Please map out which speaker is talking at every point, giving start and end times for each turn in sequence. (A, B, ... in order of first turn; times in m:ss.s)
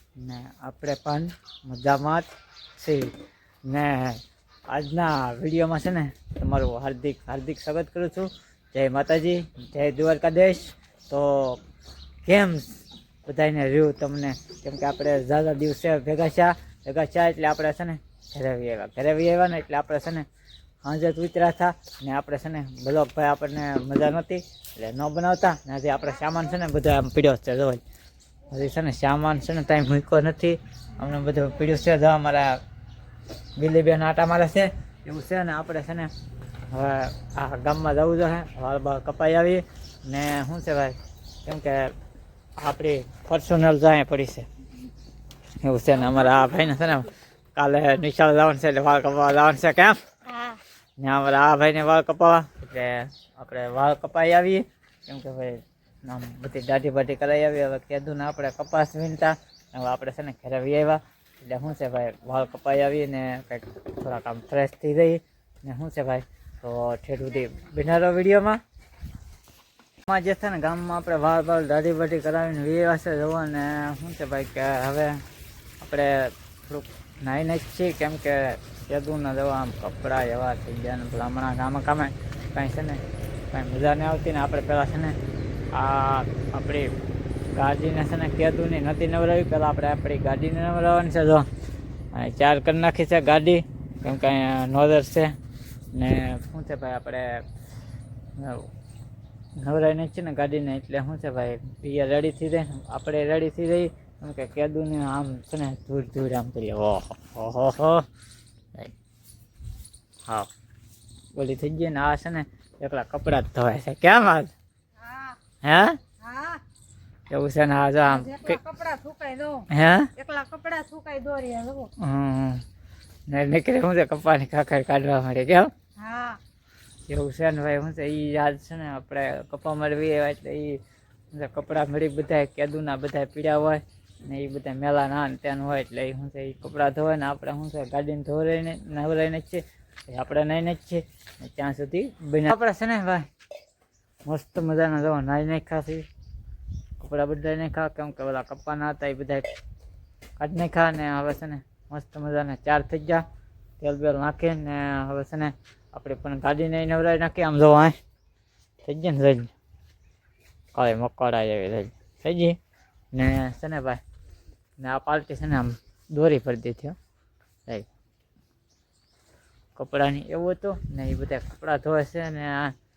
0:00.2-0:11.6 A
0:12.2-0:20.2 A
0:20.8-0:27.8 A
0:28.5-0:32.6 A
0:33.6-0:36.1 A
0:36.7-0:41.9 A
0:42.6-0:44.5 A
0:45.6-0:50.0 A
0:50.2-0:50.6 B
0:51.0-1:08.6 A
1:10.0-1:15.2 A
1:15.8-1:25.2 A
1:25.7-1:26.9 A
1:27.5-1:31.5 A
1:32.1-1:35.4 A
1:35.9-1:37.4 A
1:38.4-1:38.7 A
1:39.6-1:48.0 A
1:51.3-1:54.5 A
1:55.0-1:55.4 B
1:55.6-1:56.0 A
1:56.2-1:56.6 B
1:57.3-1:58.6 A
1:58.0-2:01.9 B
1:59.7-2:00.1 A
2:02.0-2:02.6 A
2:03.3-2:05.7 A
2:06.0-2:06.4 B
2:07.1-2:10.8 A
2:11.3-2:23.3 A
2:24.2-2:26.0 A
2:27.0-2:29.5 A
2:30.4-2:33.2 A
2:33.8-2:38.0 A
2:38.8-2:39.5 A
2:40.7-2:42.6 A
2:43.1-2:44.0 A
2:44.8-2:47.0 A
2:49.8-2:52.7 A